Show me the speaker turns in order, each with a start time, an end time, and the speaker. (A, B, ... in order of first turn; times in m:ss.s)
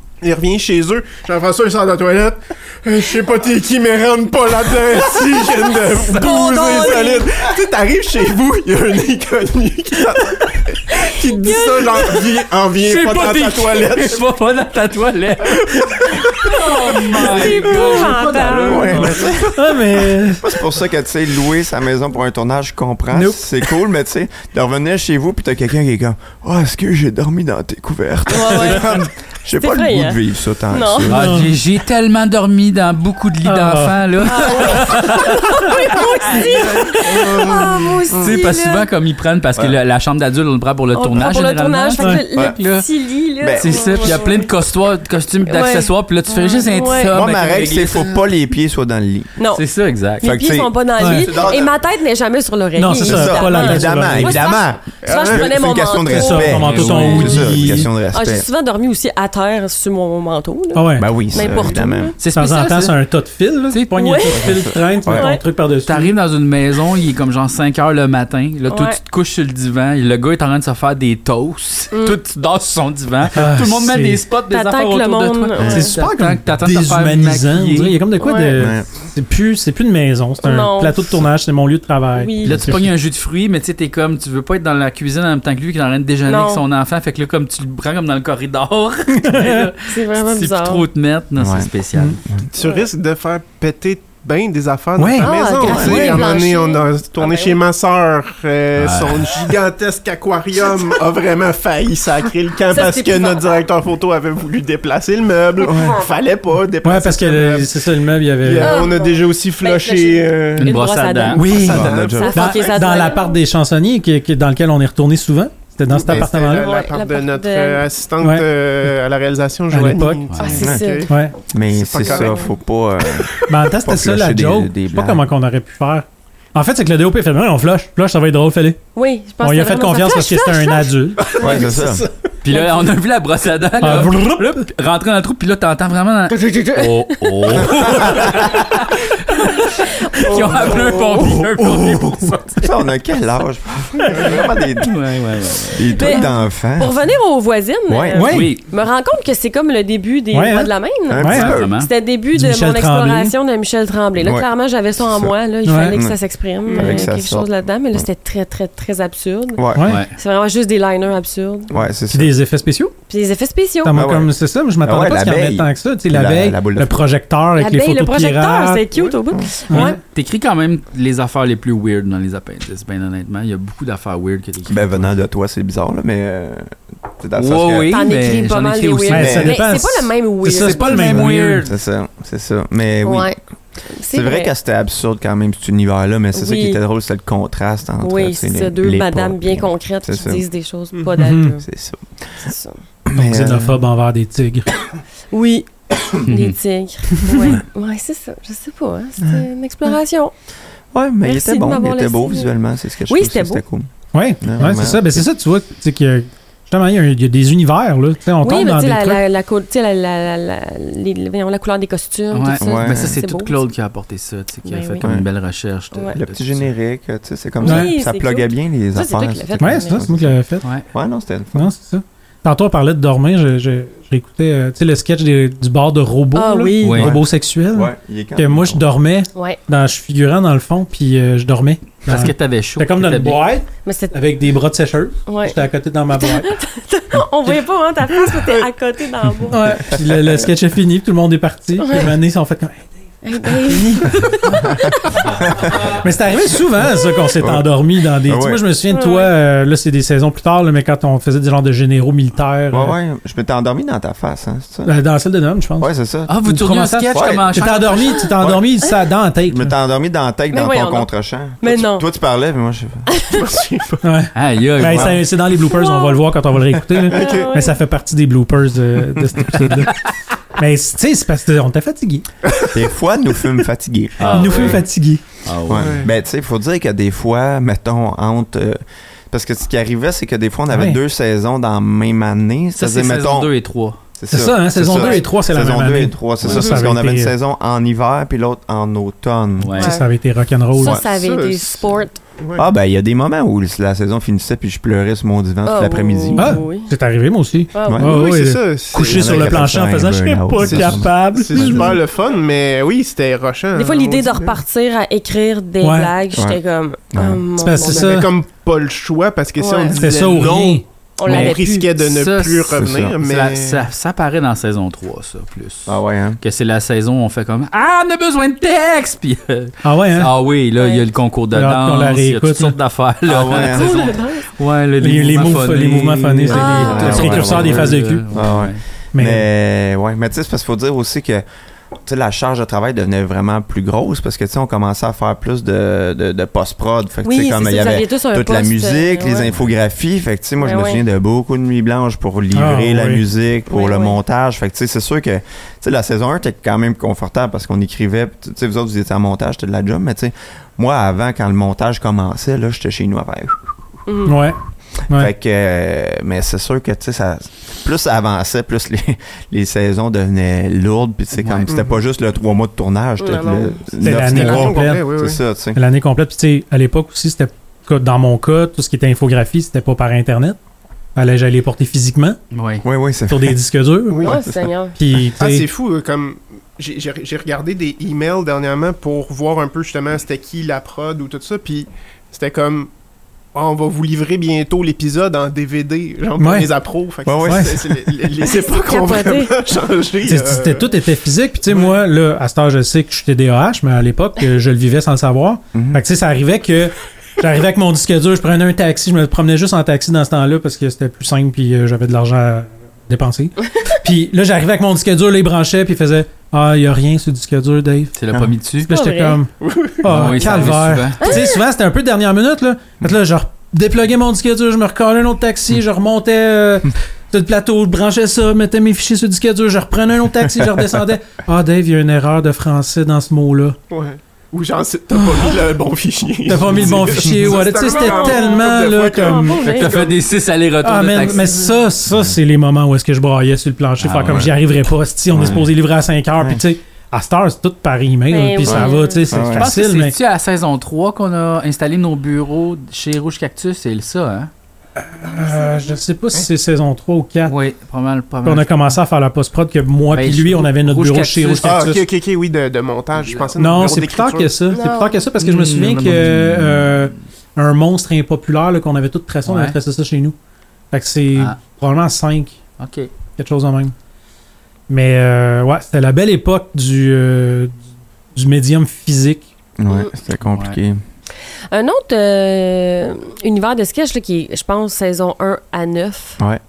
0:00.2-0:14.2 A
0:05.8-0:07.2 B
0:11.3-0:12.2 B
0:12.8-0:19.4 C
0:15.4-0:18.0 A
0:17.1-0:19.3 B
0:18.2-0:20.6 D
0:18.6-0:19.5 E
0:20.4-0:31.4 E
0:23.1-0:23.4 D
0:28.3-0:30.2 B
0:30.7-0:31.1 B
0:31.1-0:42.9 C
0:31.1-0:31.5 D
0:33.4-0:34.0 D
0:34.2-0:38.9 B
0:36.4-0:38.1 A
0:40.9-0:44.5 B
0:42.0-0:42.2 D
0:43.4-0:44.2 E
0:43.6-0:48.2 C
0:45.5-0:47.1 B
0:47.1-0:49.4 E
0:49.4-0:49.6 B
0:49.5-0:50.3 C
0:50.2-1:02.2 B
0:50.2-0:51.8 E
0:51.0-0:51.3 D
0:52.8-0:54.4 D
0:53.0-0:58.5 E
0:55.0-0:55.6 A
0:56.1-0:57.9 D
0:56.6-0:57.5 C
1:00.7-1:01.1 D
1:01.0-1:02.1 E
1:01.4-1:01.8 A
1:02.2-1:03.0 C
1:02.3-1:06.1 D
1:03.9-1:04.6 B
1:04.3-1:05.3 E
1:05.1-1:05.4 B
1:05.9-1:18.0 C
1:08.7-1:09.0 B
1:11.9-1:12.2 B
1:13.3-1:14.2 D
1:14.5-1:16.0 B
1:15.6-1:15.9 E
1:15.7-1:22.9 D
1:18.2-1:18.6 B
1:18.6-1:18.9 E
1:20.4-1:21.2 B
1:22.2-1:22.7 B
1:22.4-1:32.2 C
1:26.2-1:26.6 B
1:29.1-1:29.7 D
1:29.8-1:30.8 B
1:31.4-1:31.7 E
1:32.5-1:50.9 A
1:32.6-1:32.8 B
1:35.0-1:35.3 D
1:35.2-1:37.6 B
1:35.6-1:36.3 E
1:38.7-1:39.3 C
1:40.6-1:40.9 B
1:42.7-1:43.6 B
1:45.6-1:46.1 B
1:45.6-1:46.0 E
1:46.8-1:48.8 D
1:48.6-1:53.4 B
1:50.6-1:51.4 C
1:51.3-1:56.7 D
1:51.4-1:53.1 A
1:51.6-1:52.5 E
1:55.9-2:01.1 A
1:56.5-1:57.8 B
1:59.7-2:00.2 D
2:00.3-2:00.7 C
2:00.4-2:01.1 B
2:00.6-2:01.0 E
2:01.1-2:01.3 D
2:01.5-2:05.2 E
2:01.7-2:02.5 A
2:02.0-2:02.5 B
2:03.5-2:08.8 D
2:09.0-2:11.8 B
2:09.4-2:11.3 D
2:11.4-2:12.0 E
2:12.4-2:22.4 C
2:12.5-2:12.8 B
2:13.8-2:14.7 D
2:16.3-2:18.1 B
2:19.4-2:21.4 B
2:20.7-2:21.1 A
2:22.6-2:25.0 E
2:24.8-2:26.2 C
2:25.7-2:26.9 E
2:25.9-2:39.6 B
2:27.9-2:28.5 E
2:28.1-2:28.5 D
2:28.3-2:28.6 C
2:30.3-2:31.5 D
2:31.1-2:31.7 E
2:31.3-2:31.9 C
2:32.3-2:33.3 D
2:34.2-2:35.3 E
2:35.6-2:36.0 D
2:35.9-2:38.1 E
2:39.6-2:40.0 E
2:39.7-2:40.0 D
2:39.9-2:40.2 C
2:40.2-2:41.7 B
2:41.7-2:42.3 E
2:42.1-2:42.9 D
2:43.1-2:44.0 B
2:43.8-2:48.8 D
2:43.9-2:47.0 E
2:47.6-2:50.0 B
2:49.7-2:50.0 D
2:49.7-2:55.1 C
2:54.6-2:58.1 E
2:57.4-2:59.6 C
2:57.9-3:01.3 B
2:59.1-3:01.6 D
2:59.2-2:59.6 E
3:00.5-3:01.7 C
3:01.6-3:03.4 E
3:03.0-3:03.4 B
3:03.9-3:04.5 B
3:04.1-3:10.4 E
3:06.3-3:06.8 B
3:08.0-3:11.6 B
3:11.2-3:11.5 D
3:11.4-3:12.3 E
3:12.4-3:12.8 B
3:13.1-3:13.8 E
3:13.1-3:14.7 D
3:15.3-3:20.3 B
3:16.3-3:16.6 C
3:19.2-3:19.5 E
3:20.9-3:23.9 E
3:21.2-3:22.5 B
3:23.1-3:23.6 B
3:24.1-3:29.2 D
3:24.4-3:25.3 E
3:28.4-3:33.6 B
3:32.3-3:36.7 C
3:32.6-3:33.2 E
3:34.6-3:35.0 B
3:35.9-3:36.2 B
3:36.1-3:40.4 E
3:37.6-3:40.0 B
3:37.6-3:37.9 D
3:39.6-3:40.6 D
3:40.9-3:41.7 E
3:41.5-3:56.5 D
3:46.3-3:47.2 B
3:46.8-3:47.1 C
3:47.0-3:48.8 E
3:52.0-3:53.4 C
3:53.8-3:54.1 B
3:55.3-3:55.6 B
3:56.1-3:59.8 B
3:58.3-3:58.6 A
3:59.5-4:04.3 D
3:59.8-4:00.4 E
4:01.8-4:02.1 B
4:03.2-4:05.3 B
4:05.3-4:05.9 E
4:06.0-4:13.0 D
4:07.4-4:07.7 E
4:08.2-4:08.6 E
4:08.9-4:09.3 B
4:12.7-4:15.0 E
4:14.8-4:15.9 D
4:15.8-4:16.3 E
4:16.3-4:18.2 C
4:16.4-4:19.7 D
4:17.1-4:17.7 E
4:17.9-4:18.3 B
4:19.5-4:23.1 E
4:20.5-4:21.1 B
4:21.6-4:22.0 B
4:23.1-4:23.4 B
4:23.3-4:24.0 A
4:24.0-4:29.9 D
4:24.3-4:25.2 C
4:24.8-4:25.2 E
4:25.6-4:26.2 B
4:27.0-4:27.5 A
4:27.1-4:27.8 B
4:30.6-4:32.3 D
4:32.4-4:32.8 A
4:32.7-4:34.8 E
4:34.2-4:34.8 C
4:34.3-4:35.2 D
4:35.4-4:36.0 C
4:35.7-4:38.8 E
4:35.7-4:36.1 A
4:39.3-4:43.5 E
4:40.7-4:41.0 D
4:42.8-4:44.0 C
4:44.2-4:49.8 E
4:44.3-4:47.3 D
4:49.6-4:49.9 C
4:49.8-4:50.0 B
4:49.8-4:51.0 D
4:50.8-4:52.2 B
4:51.0-4:52.6 A
4:52.6-4:56.6 E
4:55.6-4:56.9 B
4:56.4-5:01.9 D
4:57.7-4:58.2 B
4:57.8-4:58.1 E
4:58.0-4:59.7 A
4:59.0-5:02.0 E
5:00.6-5:04.6 A
5:03.7-5:08.2 B
5:05.8-5:06.1 D
5:06.3-5:06.6 E
5:07.1-5:07.4 E
5:07.6-5:08.3 D
5:07.8-5:13.9 A
5:09.6-5:10.0 B
5:09.9-5:11.5 D
5:11.2-5:11.9 B
5:12.0-5:28.8 C
5:12.7-5:13.2 E
5:15.8-5:16.4 E
5:19.8-5:20.3 D
5:20.8-5:21.0 B
5:21.5-5:22.8 D
5:23.3-5:24.1 E
5:23.5-5:24.4 B
5:25.0-5:28.2 D
5:26.5-5:27.5 B
5:26.8-5:31.4 E
5:29.1-5:29.5 D
5:32.0-5:53.7 E
5:37.2-5:39.5 B
5:40.6-5:41.0 B
5:42.5-5:43.2 D
5:43.7-5:44.1 B
5:54.1-5:54.4 B
5:54.2-5:54.6 D
5:55.1-6:05.8 E
6:01.4-6:01.7 C
6:01.6-6:02.0 A
6:03.2-6:03.8 B
6:04.0-6:05.0 D
6:04.0-6:05.4 A
6:05.7-6:10.6 D
6:11.2-6:12.4 D
6:12.5-6:12.8 C
6:12.8-6:13.6 E
6:13.3-6:14.3 D
6:14.2-6:15.0 B
6:14.2-6:14.7 E
6:15.0-6:15.7 D
6:15.4-6:22.9 A
6:23.5-6:31.0 A
6:26.4-6:26.7 D
6:27.2-6:28.0 E
6:27.4-6:27.7 D
6:28.4-6:29.5 B
6:30.2-6:48.2 D
6:31.7-6:32.0 A
6:35.7-6:36.0 E
6:48.1-6:48.9 C
6:48.8-7:03.8 D
6:48.9-6:49.4 B
6:49.6-6:50.1 A
6:50.0-6:51.4 C
6:51.2-6:51.6 B
7:00.5-7:00.8 E
7:03.9-7:10.2 A
7:06.4-7:09.6 D
7:07.8-7:10.1 B
7:09.6-7:11.7 C
7:10.8-7:20.2 D
7:14.0-7:14.5 C
7:14.2-7:14.5 E
7:15.3-7:15.7 E
7:18.3-7:19.2 B
7:18.6-7:19.7 E
7:19.6-7:24.5 C
7:25.0-7:27.5 D
7:25.5-7:25.9 B
7:27.4-7:28.9 C
7:28.4-7:32.0 D
7:30.1-7:31.8 C
7:31.6-7:34.6 A
7:33.2-7:33.5 C
7:33.6-7:40.3 D
7:34.7-7:35.2 B
7:35.4-7:37.1 C
7:39.4-7:39.8 C
7:40.9-7:42.6 D
7:42.8-7:43.1 C
7:43.4-7:43.9 D
7:44.9-7:47.7 D
7:48.3-7:49.5 D
7:49.8-7:51.0 E
7:50.5-7:50.8 C
7:51.7-7:56.4 B